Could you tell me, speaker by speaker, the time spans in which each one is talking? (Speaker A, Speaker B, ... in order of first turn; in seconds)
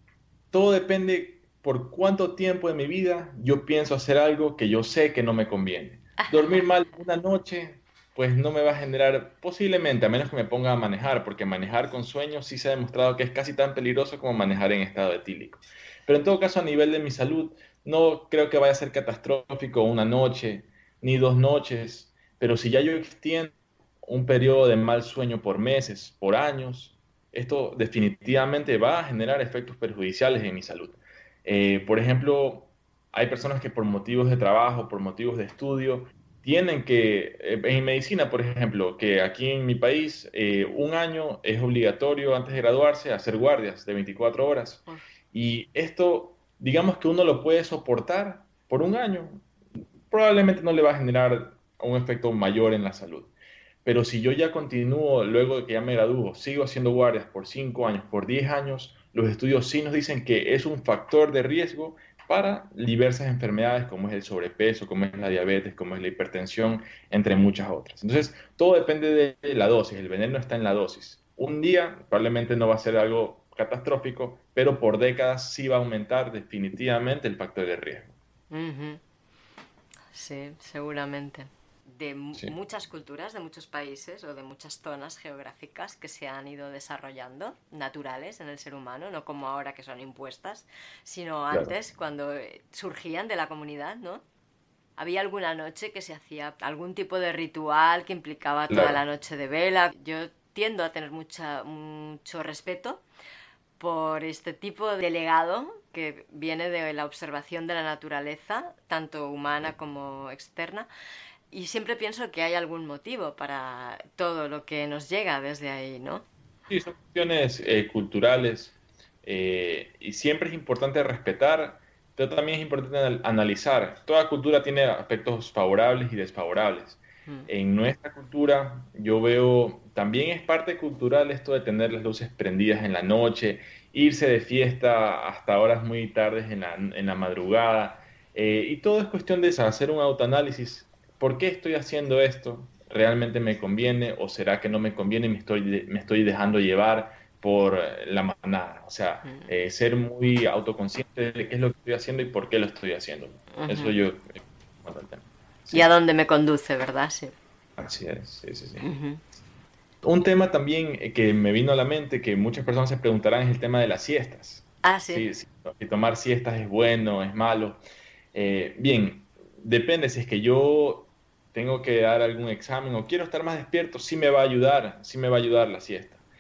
Speaker A: 0.5-49.5, 50.1-53.3, 53.9-78.2, 98.7-99.0, 116.7-155.9, 157.8-158.9, 160.0-167.8, 168.3-176.2
Speaker B: 6.2-6.7, 78.5-79.0, 80.1-94.2, 95.0-103.0, 103.8-110.9, 111.5-116.3, 153.5-154.0, 155.7-157.3, 158.8-159.2, 164.8-165.3